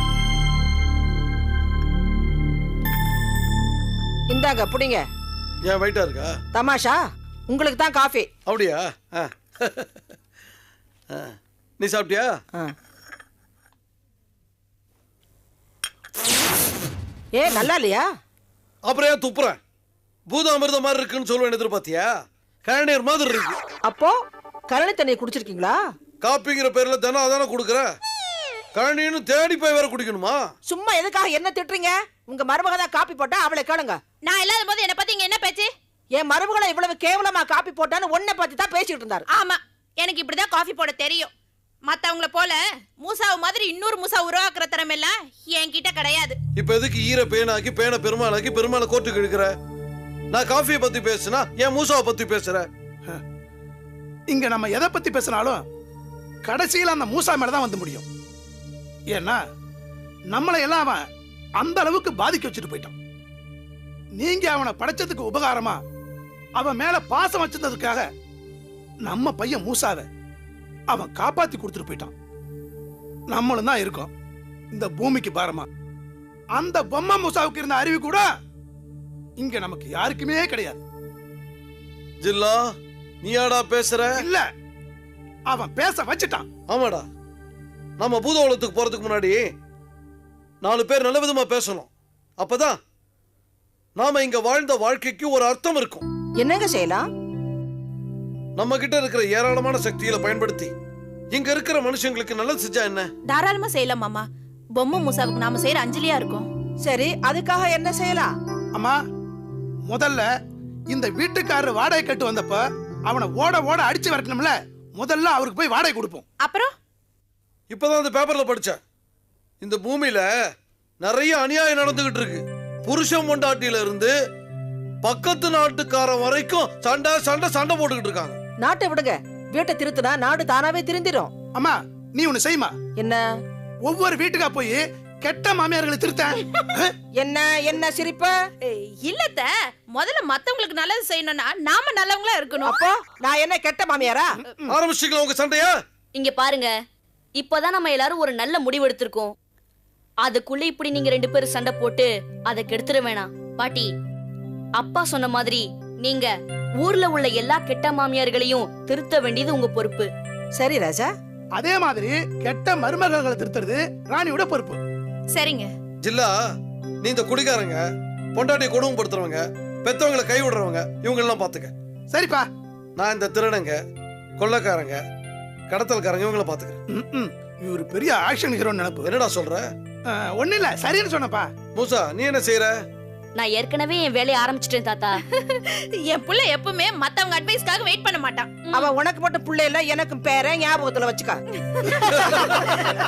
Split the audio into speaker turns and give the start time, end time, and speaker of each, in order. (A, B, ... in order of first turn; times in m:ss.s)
0:04.3-0:05.0 A
0:05.6-0:06.4 B
0:06.5-0:08.3 A
0:08.5-0:09.9 B
0:11.1-0:12.4 B
0:17.4-0:18.0 A
0:18.8-0:19.6 B
0:20.3-0:23.6 B
0:23.8-0:24.2 A
0:24.7-0:25.8 A
0:26.2-0:27.9 B
0:28.7-0:30.5 B
0:30.7-0:34.0 A
0:34.2-0:35.7 C
0:36.2-0:39.2 A
0:39.3-0:41.3 C
0:41.9-0:46.4 C
0:46.6-0:49.5 B
0:50.3-0:52.7 B
0:54.3-0:55.6 D
0:56.4-0:58.1 D
0:59.1-0:59.4 D
1:00.3-1:01.0 D
1:01.6-1:03.0 D
1:04.2-1:05.8 D
1:06.6-1:08.1 D
1:09.0-1:10.1 D
1:10.9-1:12.1 D
1:13.3-1:14.1 D
1:14.7-1:15.7 D
1:16.6-1:18.3 D
1:19.4-1:20.8 D
1:22.2-1:22.6 B
1:23.2-1:24.2 B
1:24.2-1:24.4 D
1:25.5-1:26.5 D
1:26.7-1:27.1 B
1:28.0-1:29.5 B
1:30.6-1:32.8 B
1:34.0-1:36.1 B
1:36.4-1:37.0 A
1:38.6-1:40.7 B
1:41.3-1:43.1 B
1:43.3-1:44.2 C
1:44.8-1:46.5 C
1:46.8-1:48.3 A
1:49.9-1:50.3 D
1:50.9-1:56.2 D
1:56.4-1:56.7 C
1:57.7-1:58.8 B
1:59.6-2:00.3 B
2:01.0-2:04.1 B
2:05.0-2:08.4 B
2:08.6-2:11.3 A
2:11.6-2:12.8 D
2:13.9-2:16.9 D
2:17.2-2:18.3 A
2:18.6-2:22.8 C
2:22.6-2:24.4 A
2:24.7-2:25.8 B
2:26.2-2:26.7 E
2:27.4-2:29.3 E
2:30.2-2:33.9 E
2:34.8-2:36.3 E
2:36.8-2:40.1 E
2:40.6-2:41.1 A
2:41.6-2:44.8 D
2:45.3-2:45.7 C
2:46.0-2:46.3 B
2:47.0-2:47.8 B
2:48.4-2:51.7 B
2:52.1-2:52.4 D
2:53.0-2:53.8 B
2:54.4-2:55.0 B
2:55.7-2:56.8 B
2:56.9-2:59.1 D
2:59.0-2:59.7 B
3:00.2-3:01.5 D
3:01.8-3:02.7 B
3:03.4-3:05.2 E
3:05.3-3:08.8 C
3:08.7-3:11.4 A
3:12.2-3:12.8 A